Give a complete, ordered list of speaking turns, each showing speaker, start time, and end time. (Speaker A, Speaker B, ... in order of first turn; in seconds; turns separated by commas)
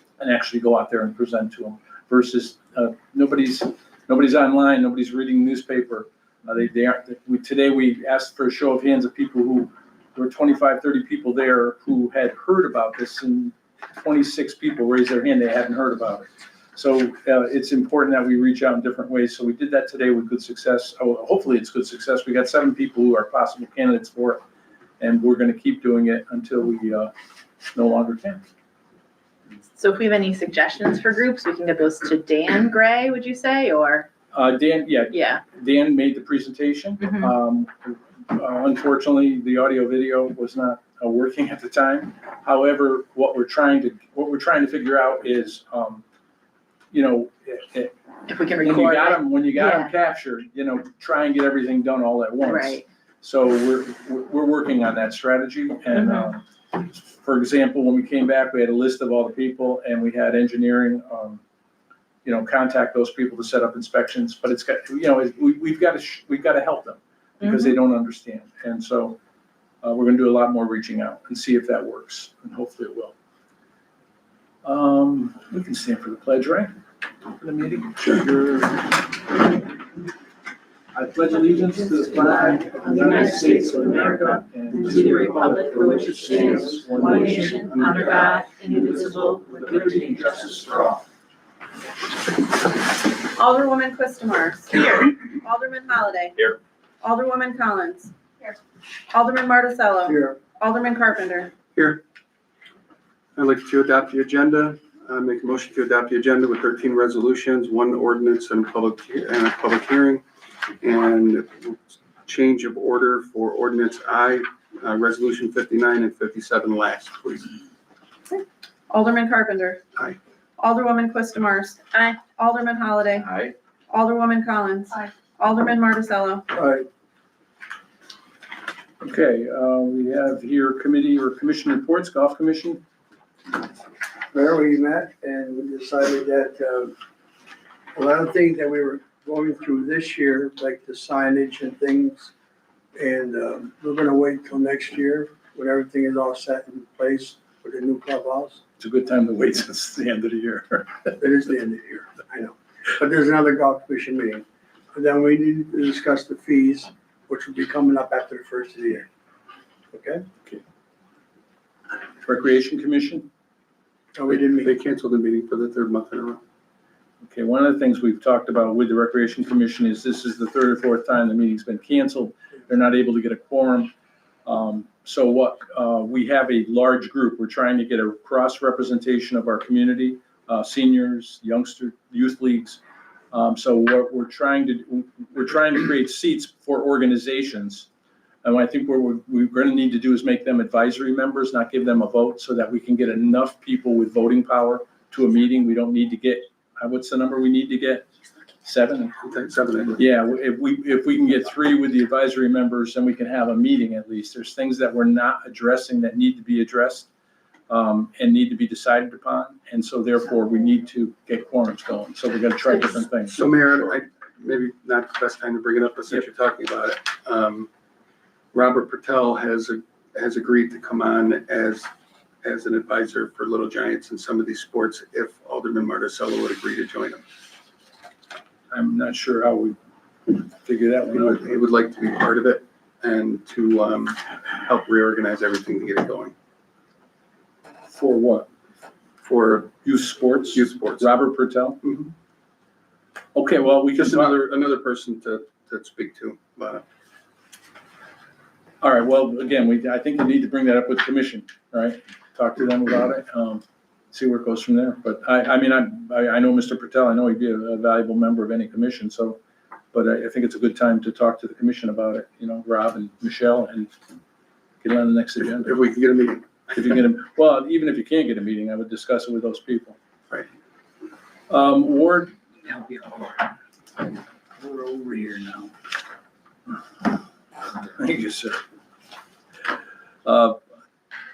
Speaker A: 0.2-24.4, Speaker A: 25.0-27.1, Speaker A: 27.7-28.4, Speaker B: 29.8-34.1, Speaker A: 34.3-46.0, Speaker B: 35.1-35.4, Speaker B: 37.0-37.3, Speaker A: 46.9-47.9, Speaker B: 48.3-49.9, Speaker A: 48.6-61.4, Speaker B: 52.4-52.9, Speaker B: 55.9-56.3, Speaker A: 62.2-69.2, Speaker B: 67.4-67.8, Speaker A: 69.8-73.1, Speaker A: 74.6-76.7, Speaker A: 77.3-78.8, Speaker A: 80.9-91.0, Speaker B: 82.9-84.2, Speaker B: 84.7-90.5, Speaker C: 93.3-96.4, Speaker C: 97.0-98.1, Speaker C: 99.1-101.5, Speaker D: 100.0-100.4, Speaker E: 101.8-102.0, Speaker E: 103.4-110.2, Speaker E: 110.8-117.5, Speaker C: 118.3-119.8, Speaker C: 120.6-123.3, Speaker C: 123.9-126.5, Speaker D: 126.5-126.9, Speaker A: 129.0-132.8, Speaker D: 134.3-136.9, Speaker D: 137.9-142.3, Speaker D: 142.9-148.6, Speaker A: 148.8-151.1, Speaker D: 151.2-159.1, Speaker D: 159.9-160.2, Speaker A: 162.2-163.3, Speaker D: 164.2-164.7, Speaker E: 164.6-166.4, Speaker A: 167.2-173.9, Speaker A: 174.4-182.8, Speaker A: 183.3-187.9, Speaker A: 188.4-198.1, Speaker A: 198.6-199.2, Speaker E: 199.2-200.0, Speaker A: 199.9-207.1, Speaker A: 207.7-213.4, Speaker E: 213.3-217.7, Speaker E: 218.5-221.9, Speaker E: 222.4-227.2, Speaker A: 228.7-229.8, Speaker A: 230.3-231.6, Speaker E: 231.1-236.3, Speaker A: 237.9-238.5, Speaker E: 239.2-239.8, Speaker A: 239.8-241.8, Speaker E: 240.5-241.1, Speaker E: 241.8-242.1, Speaker A: 243.3-244.4, Speaker E: 243.9-246.8, Speaker A: 248.8-259.4, Speaker A: 259.9-263.9, Speaker A: 264.8-265.8, Speaker E: 265.4-266.7, Speaker A: 266.7-270.0, Speaker A: 271.5-273.1, Speaker A: 274.6-275.7, Speaker A: 277.7-278.6, Speaker A: 280.2-280.6